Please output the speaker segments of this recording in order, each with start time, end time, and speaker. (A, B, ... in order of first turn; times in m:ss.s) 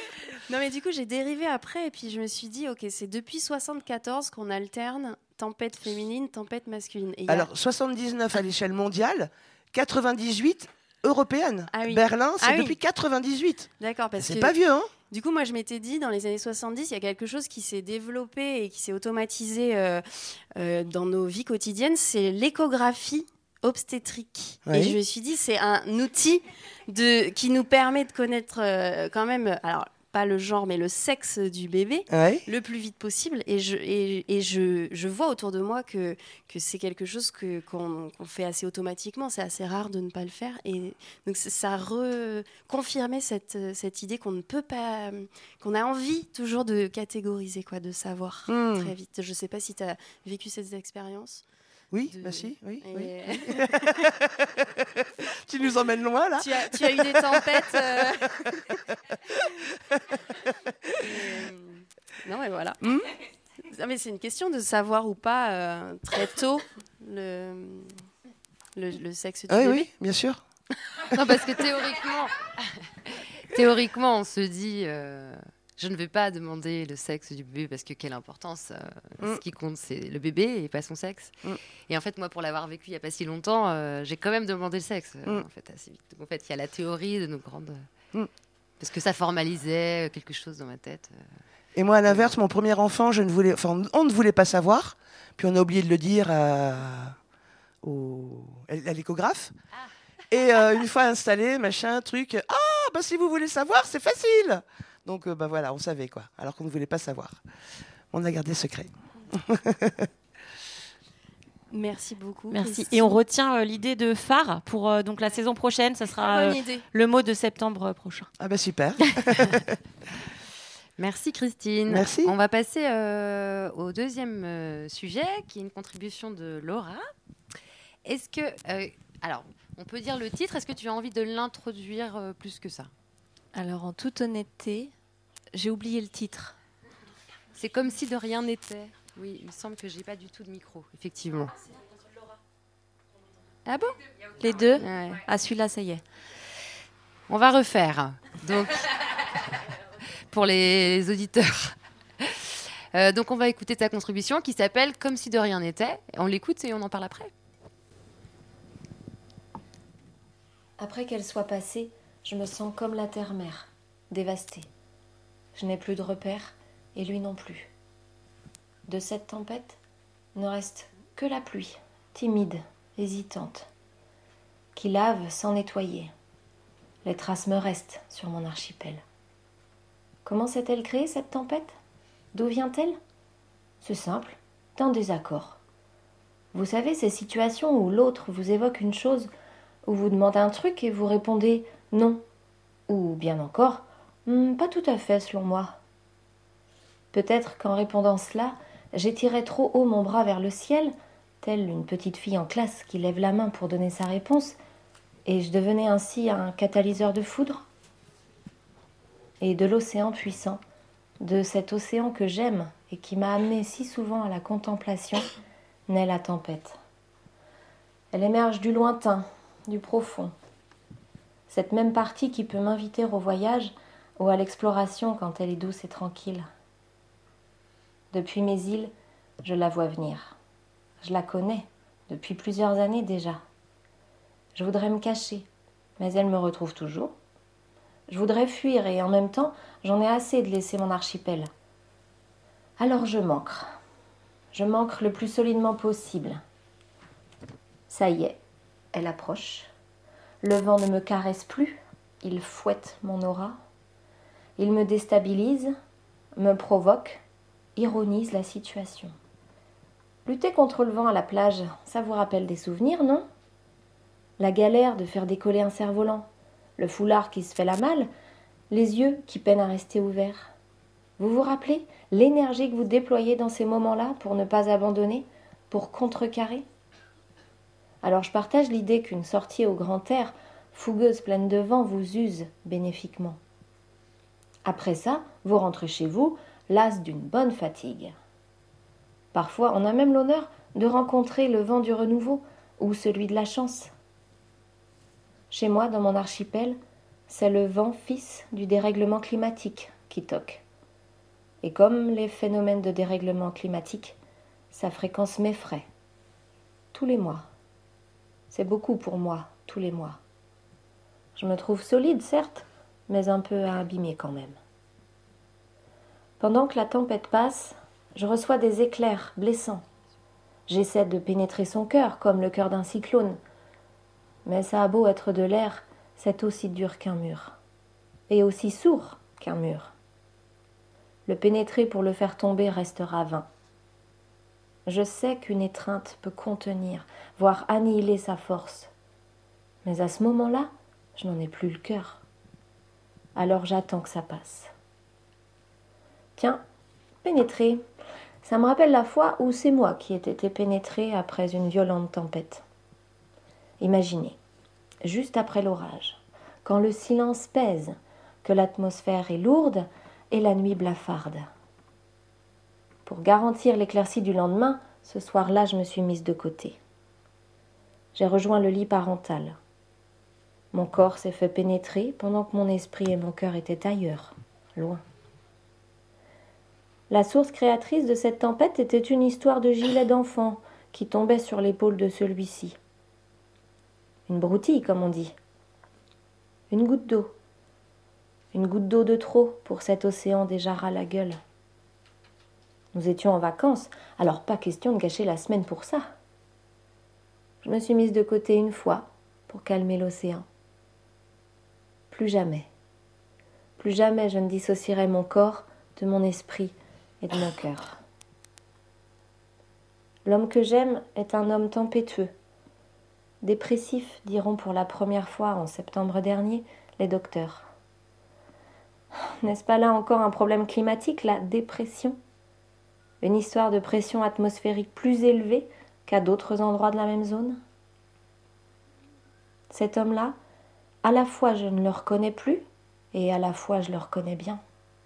0:00.5-0:07.5 A
0:07.3-0:14.9 B
0:11.7-0:12.8 A
0:13.8-0:14.6 A
0:15.1-0:51.4 A
0:24.6-0:25.0 B
0:32.1-0:32.4 B
0:48.5-0:48.9 B
0:51.9-0:54.1 B
0:52.1-0:54.0 A
0:55.3-0:58.0 B
0:56.4-0:58.4 A
1:01.0-1:01.4 B
1:01.0-1:02.8 A
1:02.8-1:03.1 B
1:03.7-1:08.1 A
1:08.7-1:09.9 A
1:09.5-1:10.4 B
1:11.1-1:12.3 C
1:13.5-1:21.3 C
1:21.9-1:27.9 C
1:28.8-1:31.2 C
1:31.8-1:37.2 B
1:37.8-1:39.5 B
1:40.3-1:47.4 B
1:48.1-1:50.1 B
1:51.7-1:53.1 A
1:52.5-1:58.3 D
1:56.4-1:56.8 A
1:58.4-1:59.8 B
2:01.0-2:07.1 C
2:01.9-2:02.3 B
2:08.0-2:12.9 C
2:13.5-2:14.9 E
2:15.5-2:16.6 E
2:17.6-2:21.5 C
2:24.4-2:26.0 E
2:24.8-2:25.2 C
2:27.3-2:28.9 C
2:30.3-2:37.3 C
2:40.8-2:44.7 F
2:45.5-2:47.7 F
2:48.9-2:49.8 F
2:50.3-2:53.7 F
2:54.7-2:56.1 F
2:57.0-2:59.0 F
3:00.2-3:01.8 F
3:02.3-3:03.0 F
3:03.8-3:05.6 F
3:06.5-3:09.3 F
3:09.8-3:12.2 F
3:12.9-3:15.8 F
3:17.1-3:24.6 F
3:25.2-3:27.6 F
3:29.4-3:30.6 F
3:31.2-3:35.3 F
3:35.9-3:36.8 F
3:38.1-3:40.3 F
3:41.5-3:46.5 F
3:48.1-3:48.9 F
3:49.4-3:50.4 F
3:51.0-3:53.4 F
3:54.5-3:55.4 F
3:56.0-3:57.1 F
3:58.1-4:01.5 F
4:02.8-4:03.8 F
4:04.5-4:06.4 F
4:07.9-4:08.4 F
4:08.9-4:09.7 F
4:10.4-4:13.6 F
4:14.6-4:15.7 F
4:16.4-4:17.2 F
4:17.8-4:19.1 F
4:20.2-4:23.3 F
4:24.4-4:28.1 F
4:28.7-4:30.5 F
4:31.2-4:36.6 F
4:38.0-4:43.4 F
4:44.6-4:48.2 F
4:49.3-4:53.9 F
4:55.5-4:56.8 F
4:57.3-5:00.6 F
5:01.6-5:04.2 F
5:04.7-5:05.8 F
5:06.9-5:07.5 F
5:08.5-5:10.2 F
5:11.4-5:14.6 F
5:16.4-5:19.8 F
5:20.7-5:23.4 F
5:24.4-5:27.6 F
5:28.3-5:29.9 F
5:31.2-5:33.5 F
5:34.9-5:38.9 F
5:39.8-5:42.2 F
5:43.3-5:44.7 F
5:46.4-5:46.6 F
5:47.2-5:47.8 F
5:48.4-5:52.6 F
5:53.8-5:54.4 F
5:55.0-6:01.5 F
6:03.0-6:06.8 F
6:08.1-6:09.6 F
6:10.7-6:15.0 F
6:17.1-6:22.8 F
6:24.3-6:25.3 F
6:26.7-6:27.3 F
6:28.5-6:31.4 F
6:32.9-6:36.1 F
6:37.6-6:40.4 F
6:42.1-6:42.7 F
6:43.8-6:48.0 F
6:50.2-6:52.3 F
6:53.4-6:57.7 F
6:59.4-7:02.2 F
7:03.2-7:07.6 F
7:09.7-7:10.4 F
7:11.0-7:14.6 F